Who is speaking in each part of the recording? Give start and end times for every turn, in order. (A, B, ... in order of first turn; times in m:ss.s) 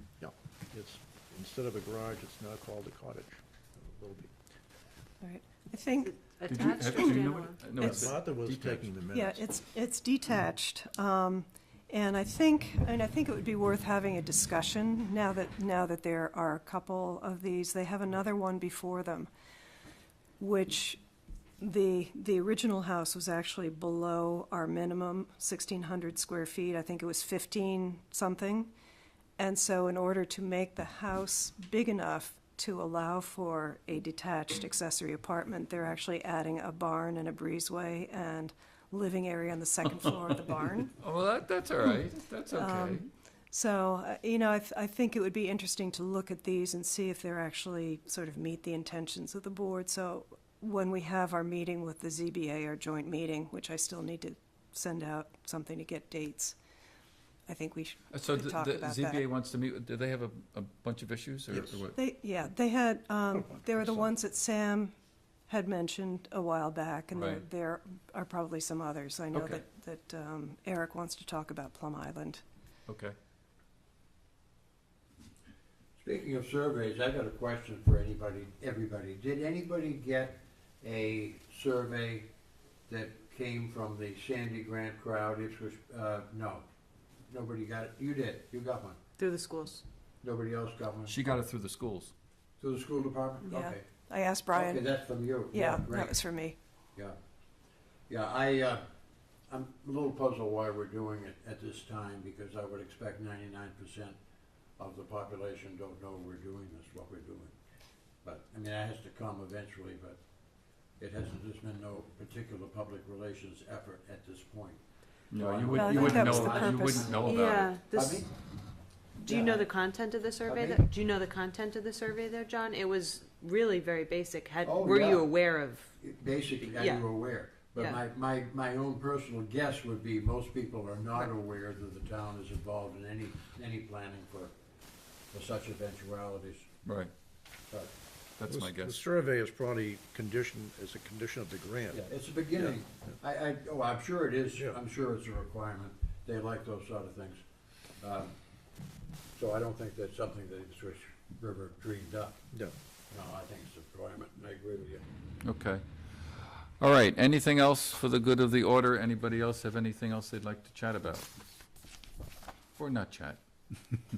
0:00.2-0:04.3 A
0:05.2-0:07.2 B
0:06.1-0:07.7 C
0:06.5-0:08.9 D
0:07.8-0:09.5 A
0:09.1-0:19.3 B
0:20.4-0:21.0 B
0:21.6-0:28.7 B
0:29.4-0:40.9 B
0:41.0-0:43.1 D
0:42.5-0:56.6 B
0:57.5-0:59.2 B
0:58.1-1:02.0 D
1:01.5-1:01.8 A
1:01.9-1:04.9 B
1:03.3-1:04.1 A
1:05.5-1:12.4 B
1:07.1-1:07.4 D
1:09.3-1:09.6 D
1:12.9-1:13.2 D
1:16.0-1:22.3 E
1:22.9-1:26.6 E
1:27.3-1:29.0 E
1:29.2-1:29.8 C
1:30.2-1:31.1 E
1:31.1-1:32.1 D
1:32.6-1:34.0 E
1:33.5-1:36.6 B
1:34.5-1:36.3 E
1:38.1-1:38.8 E
1:39.5-1:44.2 E
1:44.8-1:47.6 E
1:48.2-1:50.2 E
1:51.0-1:58.3 E
1:55.3-1:57.7 D
1:55.8-1:57.4 B
1:57.2-1:58.3 C
1:59.2-2:05.9 C
1:59.2-1:59.7 E
2:00.4-2:00.8 E
2:04.6-2:05.3 E
2:06.0-2:14.5 E
2:06.6-2:08.0 C
2:15.3-2:16.7 E
2:16.8-2:17.1 D
2:18.4-2:19.0 D
2:18.5-2:22.7 A
2:21.9-2:27.4 E
2:24.5-2:24.8 A
2:28.0-2:28.3 E
2:29.3-2:32.4 E
2:33.1-2:35.0 E
2:35.4-2:41.4 D
2:42.8-2:43.4 D